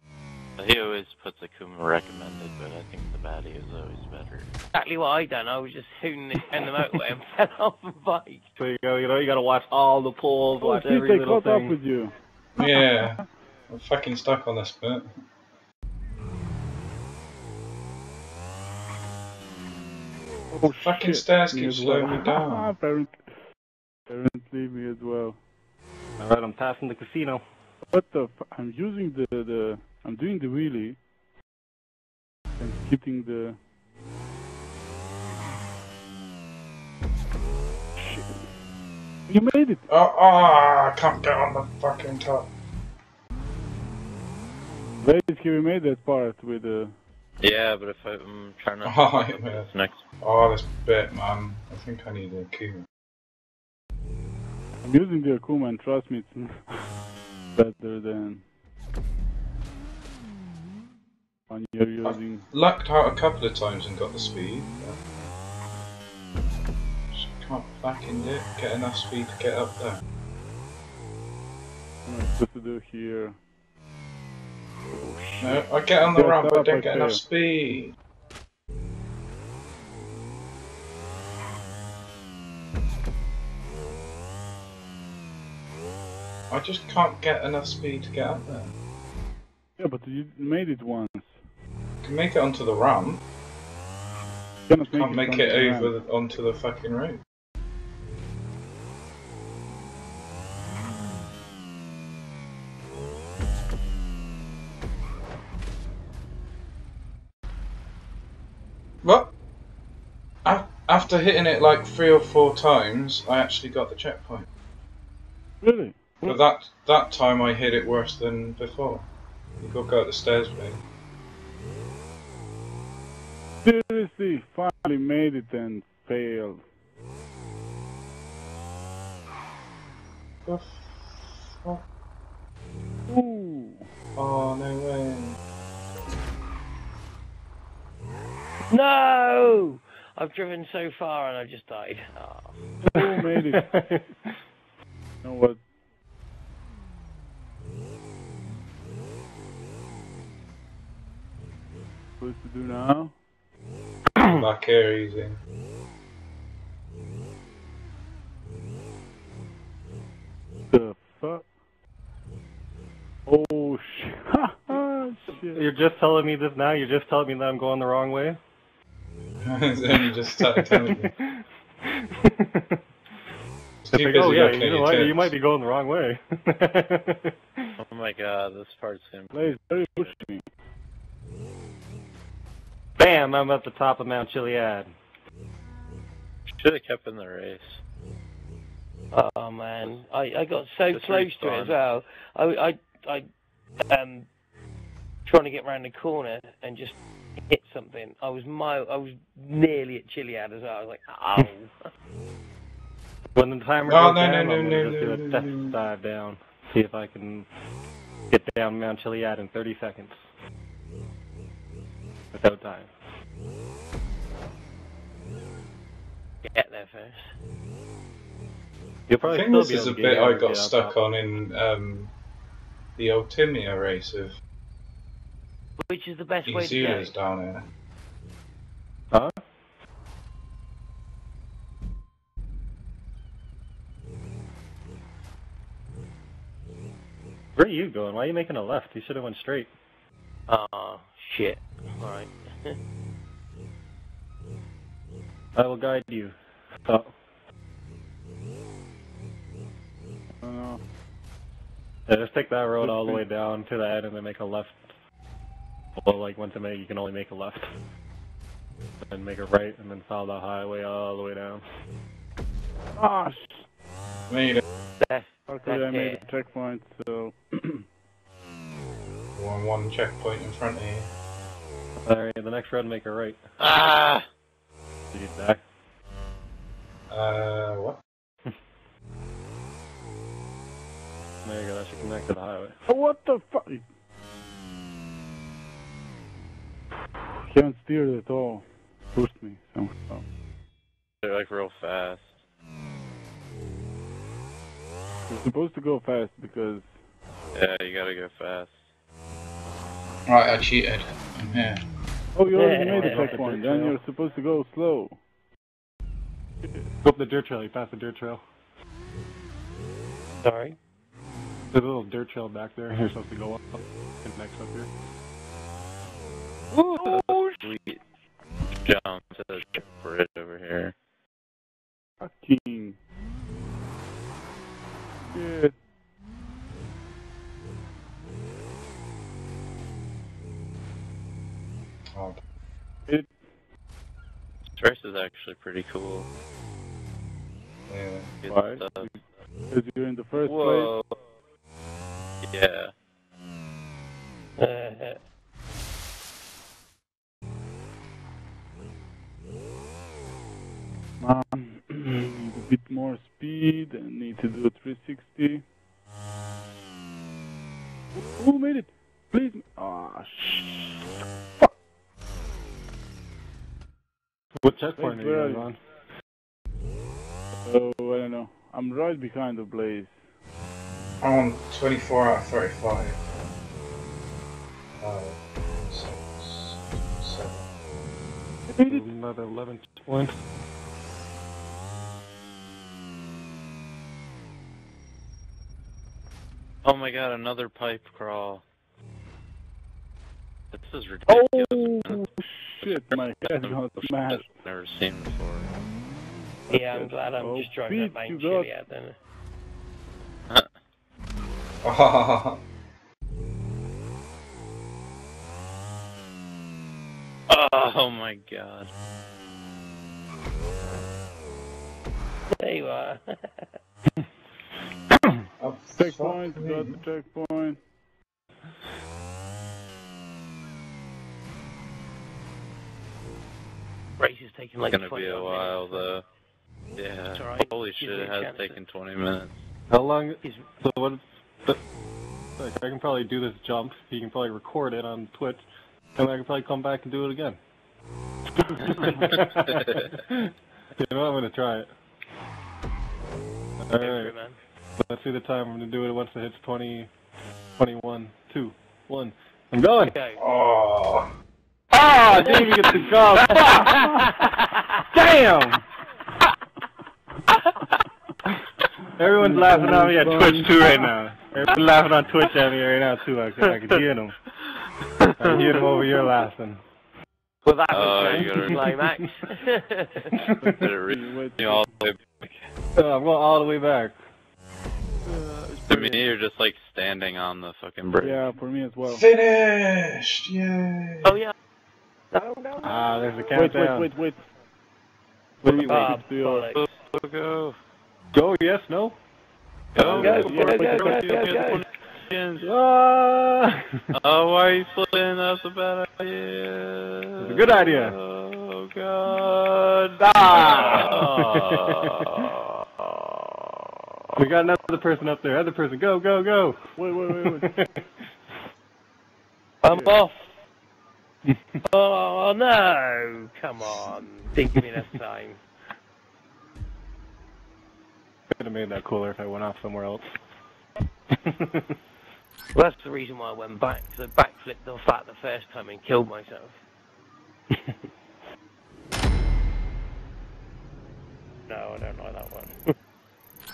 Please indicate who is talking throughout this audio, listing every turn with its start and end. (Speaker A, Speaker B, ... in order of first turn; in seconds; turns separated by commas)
Speaker A: 0.6-4.5, Speaker B: 4.7-8.4, Speaker C: 6.3-7.0, Speaker C: 8.6-11.8, Speaker D: 10.6-13.2, Speaker E: 12.6-15.1, Speaker D: 20.5-23.2, Speaker E: 20.7-22.7, Speaker D: 24.1-25.4, Speaker C: 26.2-27.4, Speaker D: 27.9-31.0, Speaker D: 32.6-33.6, Speaker D: 38.0-38.4, Speaker D: 39.3-39.9, Speaker E: 39.9-42.5, Speaker D: 45.0-46.9, Speaker A: 47.4-50.0, Speaker E: 48.8-49.7, Speaker E: 50.2-52.9, Speaker D: 54.8-56.8, Speaker D: 57.5-58.4, Speaker D: 61.5-62.4, Speaker E: 62.0-65.0, Speaker E: 67.1-70.0, Speaker D: 72.0-73.4, Speaker B: 74.9-75.4, Speaker E: 75.4-77.9, Speaker D: 76.1-77.2, Speaker E: 86.5-88.7, Speaker D: 89.8-91.3, Speaker E: 92.0-93.2, Speaker D: 94.7-95.9, Speaker E: 94.9-97.2, Speaker E: 109.0-109.3, Speaker E: 110.4-114.5, Speaker D: 115.6-116.0, Speaker E: 116.2-119.0, Speaker E: 119.6-120.8, Speaker D: 123.6-126.6, Speaker E: 130.4-131.8, Speaker D: 133.1-133.9, Speaker E: 134.2-135.4, Speaker B: 138.7-142.6, Speaker D: 142.8-143.7, Speaker C: 143.0-144.3, Speaker D: 145.2-145.6, Speaker D: 152.2-153.1, Speaker E: 154.2-155.4, Speaker D: 160.7-161.5, Speaker D: 163.2-165.6, Speaker C: 165.5-168.4, Speaker E: 169.4-171.1, Speaker C: 170.4-172.8, Speaker E: 173.8-175.3, Speaker C: 173.9-177.7, Speaker A: 177.8-180.1, Speaker D: 179.3-180.4, Speaker C: 183.0-184.9, Speaker A: 186.6-187.8, Speaker B: 189.1-193.3, Speaker A: 190.9-191.8, Speaker B: 193.9-194.3, Speaker B: 195.2-197.0, Speaker B: 197.5-201.7, Speaker C: 203.3-207.5, Speaker E: 203.8-205.8, Speaker C: 208.3-210.2, Speaker C: 212.3-212.9, Speaker B: 216.4-217.2, Speaker C: 219.1-220.9, Speaker E: 219.2-222.1, Speaker E: 223.0-224.3, Speaker B: 225.8-227.1, Speaker E: 226.4-227.6, Speaker C: 237.6-239.7, Speaker B: 240.5-242.7, Speaker C: 245.6-246.3, Speaker D: 250.4-250.8, Speaker C: 252.1-254.9, Speaker D: 252.8-253.2, Speaker C: 256.0-257.6, Speaker C: 259.1-261.6, Speaker D: 262.9-263.7, Speaker E: 264.3-264.6, Speaker B: 265.0-266.2, Speaker D: 265.5-267.9, Speaker E: 269.3-271.1, Speaker C: 272.0-273.4, Speaker A: 273.6-274.2, Speaker C: 275.1-275.6, Speaker E: 277.1-278.0, Speaker C: 281.4-282.8, Speaker D: 282.9-283.8, Speaker D: 287.5-290.2, Speaker A: 291.2-292.3, Speaker D: 295.3-296.9, Speaker A: 297.5-298.7, Speaker E: 300.3-301.8, Speaker D: 302.4-305.2, Speaker B: 302.5-303.4, Speaker C: 302.9-304.0, Speaker C: 307.0-308.4, Speaker B: 310.4-310.8, Speaker C: 311.7-314.9, Speaker A: 316.9-318.0, Speaker C: 317.1-317.4, Speaker A: 318.8-320.9, Speaker D: 322.2-323.0, Speaker D: 325.3-325.7, Speaker E: 332.1-332.4, Speaker D: 333.1-333.4, Speaker A: 334.8-336.3, Speaker E: 337.9-338.3, Speaker A: 338.4-339.1, Speaker D: 338.5-339.2, Speaker D: 339.7-340.9, Speaker A: 340.4-341.2, Speaker A: 342.4-342.9, Speaker B: 344.6-345.2, Speaker D: 351.2-355.6, Speaker D: 358.1-361.1, Speaker C: 364.6-365.8, Speaker D: 365.0-365.7, Speaker D: 367.6-370.1, Speaker E: 371.2-373.2, Speaker E: 375.0-377.7, Speaker D: 378.7-379.1, Speaker C: 378.8-380.4, Speaker A: 386.8-388.6, Speaker A: 390.7-392.2, Speaker D: 391.3-394.5, Speaker A: 392.8-395.7, Speaker D: 396.7-398.7, Speaker B: 396.7-399.1, Speaker E: 401.8-402.6, Speaker A: 407.5-408.9, Speaker B: 412.5-413.7, Speaker E: 415.6-417.0, Speaker D: 415.9-417.8, Speaker B: 424.2-426.1, Speaker A: 424.9-426.2, Speaker A: 427.0-429.6, Speaker B: 427.3-428.8, Speaker C: 429.9-431.8, Speaker B: 430.4-430.7, Speaker C: 432.6-435.6, Speaker C: 436.1-437.6, Speaker C: 438.7-441.9, Speaker C: 443.8-444.3, Speaker B: 443.9-444.6, Speaker C: 445.0-447.1, Speaker C: 447.8-450.1, Speaker B: 450.1-450.4, Speaker E: 450.4-451.3, Speaker C: 451.9-454.1, Speaker B: 452.4-455.0, Speaker C: 455.1-455.8, Speaker C: 459.2-464.3, Speaker D: 459.3-460.9, Speaker A: 465.2-465.8, Speaker C: 465.4-466.8, Speaker B: 467.6-470.4, Speaker A: 467.9-468.9, Speaker C: 468.2-469.3, Speaker C: 470.3-470.9, Speaker D: 470.6-471.9, Speaker A: 470.7-472.5, Speaker C: 472.9-474.2, Speaker B: 475.2-476.3, Speaker A: 475.8-478.5, Speaker D: 478.2-479.2, Speaker E: 479.0-481.4, Speaker B: 481.2-481.5, Speaker B: 482.3-483.6, Speaker C: 482.8-484.1, Speaker D: 483.5-484.4, Speaker C: 485.6-486.1, Speaker D: 485.6-486.7, Speaker B: 485.9-486.8, Speaker A: 486.7-487.8, Speaker C: 488.3-489.2, Speaker A: 489.9-492.6, Speaker C: 489.9-490.8, Speaker D: 490.2-491.4, Speaker B: 490.2-491.8, Speaker C: 492.6-494.0, Speaker A: 494.1-502.6, Speaker C: 497.4-498.2, Speaker C: 500.2-502.5, Speaker C: 504.4-508.2, Speaker D: 506.9-507.7, Speaker B: 509.8-510.6, Speaker D: 509.9-510.2, Speaker B: 511.9-515.6, Speaker C: 514.7-515.2, Speaker C: 518.5-520.3, Speaker C: 521.3-522.0, Speaker B: 522.7-526.8, Speaker C: 527.7-528.0, Speaker B: 531.7-532.9